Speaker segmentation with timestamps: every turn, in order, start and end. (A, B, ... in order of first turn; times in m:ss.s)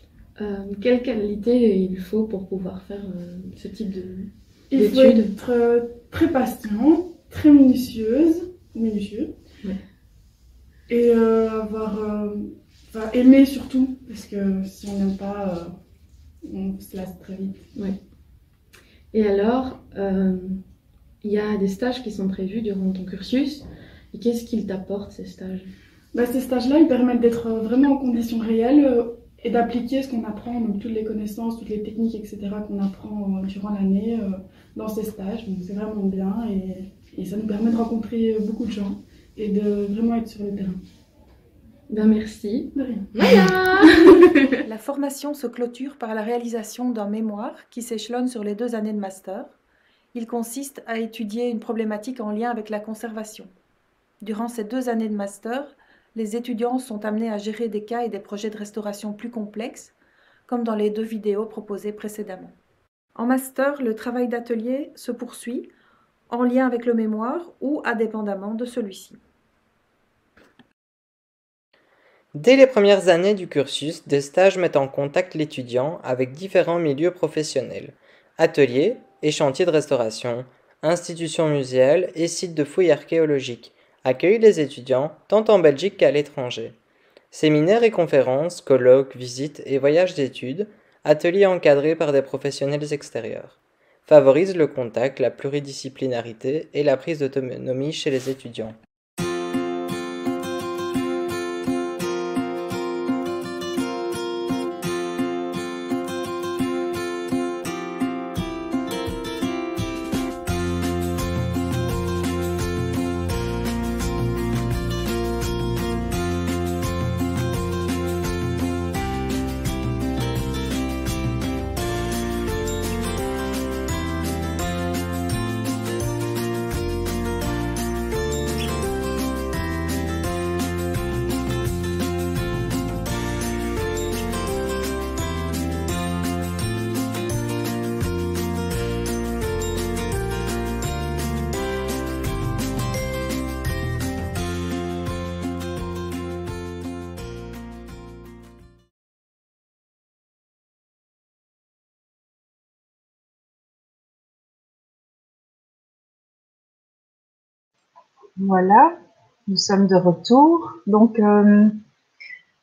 0:00.4-0:05.3 A
0:04.7-0:09.3 B
0:10.9-0:15.7 B
0:16.4-0:17.7 B
0:19.1-0:20.6 A
0:21.2-0:25.7 A
0:26.1-0:40.8 B
0:41.9-0:44.6 A
0:42.7-0:44.0 B
0:44.6-0:49.6 C
0:50.1-0:53.5 C
0:54.2-0:59.9 C
1:00.5-1:02.6 C
1:03.2-1:05.7 C
1:06.3-1:09.2 C
1:12.3-1:26.8 D
1:27.3-1:38.8 D
2:38.4-2:39.0 E
2:39.5-2:41.8 E